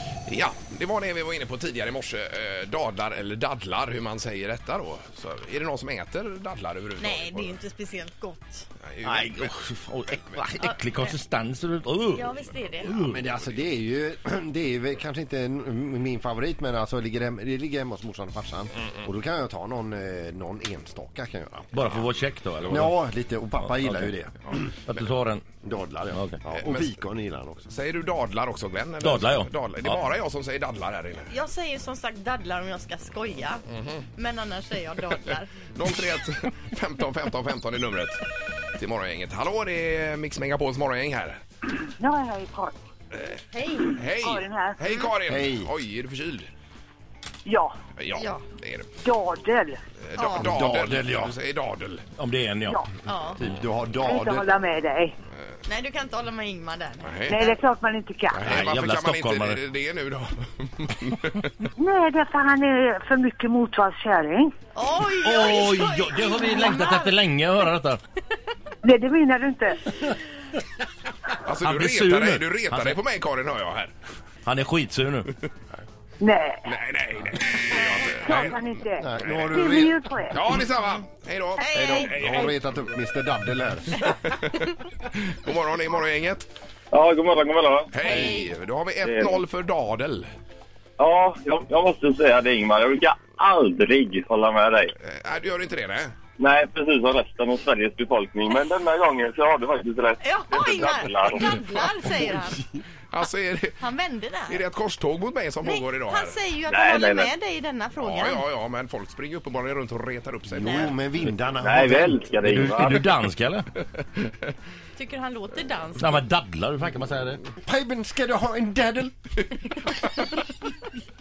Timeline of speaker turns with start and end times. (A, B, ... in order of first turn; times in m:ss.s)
0:00.3-0:07.6 A
0:07.0-0:08.6 B
0:08.8-0:09.5 A
0:09.0-0:12.3 C
0:10.6-0:11.1 B
0:12.1-0:12.9 B
0:12.8-0:13.2 C
0:13.0-0:21.8 D
0:21.7-0:22.9 C
0:22.7-0:24.6 D
0:23.6-0:24.1 C
0:24.8-0:25.4 C
0:25.6-0:27.6 D
0:26.1-0:26.4 C
0:26.5-0:26.9 A
0:27.7-0:31.3 A
0:29.0-0:30.0 C
0:31.3-0:33.6 B
0:33.7-0:34.0 A
0:34.2-0:35.5 B
0:35.7-0:38.2 A
0:38.8-0:41.4 A
0:42.0-0:42.7 E
0:43.1-0:43.4 A
0:43.5-0:44.0 B
0:44.0-0:46.5 A
0:44.2-0:44.8 E
0:45.3-0:45.7 D
0:47.4-0:47.7 E
0:48.0-0:48.9 A
0:48.2-0:48.4 B
0:49.0-0:49.8 E
0:50.0-0:52.0 A
0:50.2-0:50.5 B
0:50.4-0:51.3 D
0:52.2-0:52.8 C
0:53.0-0:53.4 B
0:53.4-0:54.4 D
0:54.0-0:55.1 E
0:55.6-0:57.6 B
0:57.0-0:57.4 A
0:57.3-0:58.5 E
0:58.3-1:01.5 A
0:58.4-0:59.6 C
1:01.8-1:04.5 E
1:04.7-1:07.2 B
1:05.2-1:08.0 C
1:08.8-1:09.8 E
1:11.4-1:13.9 A
1:11.6-1:13.0 C
1:14.4-1:15.3 C
1:16.2-1:16.6 E
1:16.6-1:19.4 A
1:17.7-1:18.2 B
1:18.2-1:20.4 E
1:19.0-1:20.0 D
1:20.3-1:22.7 A
1:21.6-1:22.1 B
1:21.7-1:24.0 D
1:24.1-1:26.4 A
1:26.9-1:28.0 F
1:27.9-1:30.3 A
1:28.0-1:28.5 B
1:29.0-1:29.4 F
1:31.0-1:34.9 F
1:35.0-1:36.1 A
1:36.4-1:41.6 F
1:40.2-1:42.6 B
1:43.1-1:43.8 A
1:43.8-1:44.6 B
1:44.5-1:46.4 A
1:45.6-1:48.4 B
1:46.7-1:47.3 F
1:48.0-1:51.0 A
1:50.5-1:52.2 D
1:50.6-1:50.9 B
1:51.6-1:53.1 F
1:52.4-1:53.6 C
1:55.0-1:56.2 B
1:56.0-1:57.4 C
1:57.6-1:59.1 D
1:59.9-2:00.2 A